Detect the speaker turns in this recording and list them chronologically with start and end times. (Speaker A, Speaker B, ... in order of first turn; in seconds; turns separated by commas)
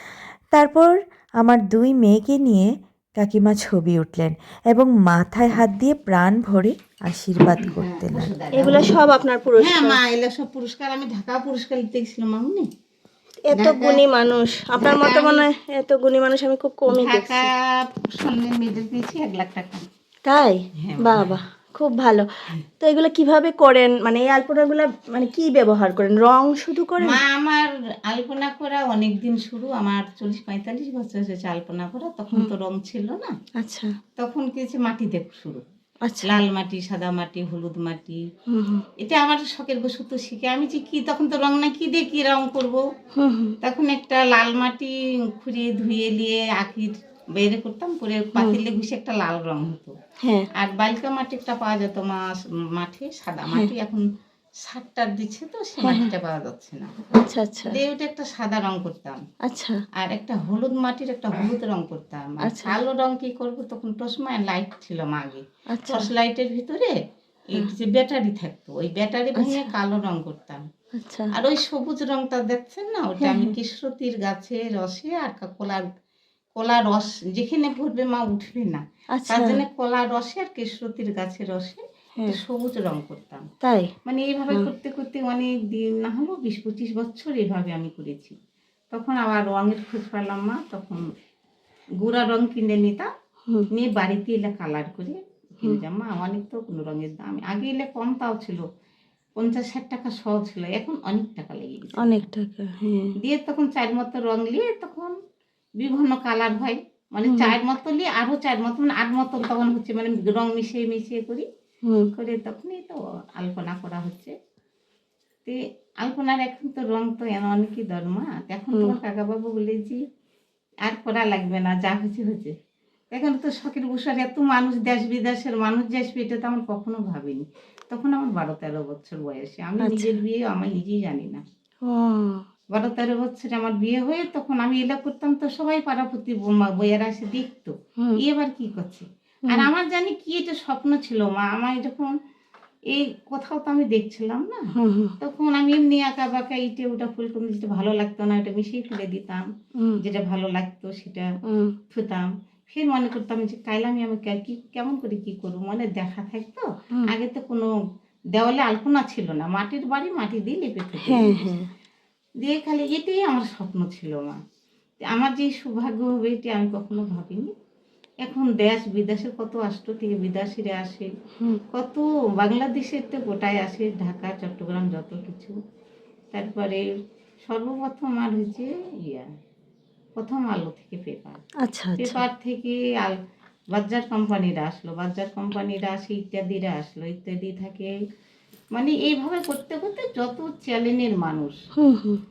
Speaker A: 0.5-8.3, Speaker B: 7.7-8.9, Speaker C: 8.5-10.0, Speaker B: 9.6-12.7, Speaker C: 13.4-17.4, Speaker B: 13.5-14.0, Speaker B: 14.8-15.5, Speaker B: 16.9-19.8, Speaker C: 20.2-22.3, Speaker B: 20.8-21.4, Speaker C: 22.8-27.2, Speaker B: 27.0-33.3, Speaker C: 33.6-33.9, Speaker B: 34.2-35.6, Speaker C: 36.0-36.4, Speaker B: 36.2-38.2, Speaker C: 38.5-38.8, Speaker B: 39.0-42.8, Speaker C: 43.2-43.5, Speaker B: 43.6-49.9, Speaker C: 50.2-50.5, Speaker B: 50.5-54.0, Speaker B: 54.6-57.0, Speaker C: 55.8-56.1, Speaker C: 57.1-57.8, Speaker B: 57.7-59.2, Speaker C: 59.4-59.8, Speaker B: 60.0-66.9, Speaker C: 62.4-62.8, Speaker C: 65.7-66.1, Speaker B: 67.5-70.6, Speaker C: 69.4-69.7, Speaker C: 71.0-71.3, Speaker B: 71.3-75.8, Speaker C: 73.2-73.5, Speaker B: 76.6-83.4, Speaker C: 79.2-79.6, Speaker C: 83.6-83.9, Speaker B: 84.0-88.3, Speaker B: 88.9-91.0, Speaker B: 92.0-93.1, Speaker B: 93.7-98.6, Speaker B: 99.4-102.3, Speaker C: 102.0-103.1, Speaker B: 103.2-105.1, Speaker B: 105.8-111.5, Speaker C: 107.3-107.5, Speaker C: 111.8-112.1, Speaker B: 112.2-114.3, Speaker B: 115.5-120.0, Speaker B: 120.8-122.5, Speaker B: 123.1-131.4, Speaker C: 129.8-130.1, Speaker C: 131.8-132.4, Speaker B: 132.7-142.1, Speaker B: 142.9-144.7, Speaker C: 144.8-145.1, Speaker B: 145.2-149.4, Speaker B: 150.0-151.3, Speaker C: 151.5-151.7, Speaker B: 151.9-157.7, Speaker B: 158.3-161.6, Speaker C: 161.0-161.7, Speaker B: 162.4-164.4, Speaker B: 165.0-167.5, Speaker B: 168.2-171.1, Speaker B: 171.7-175.5, Speaker B: 176.3-176.8, Speaker B: 177.5-179.2, Speaker B: 180.2-181.4, Speaker C: 181.6-182.2, Speaker B: 182.0-183.2, Speaker B: 183.7-187.9, Speaker B: 188.8-191.5, Speaker C: 191.8-192.2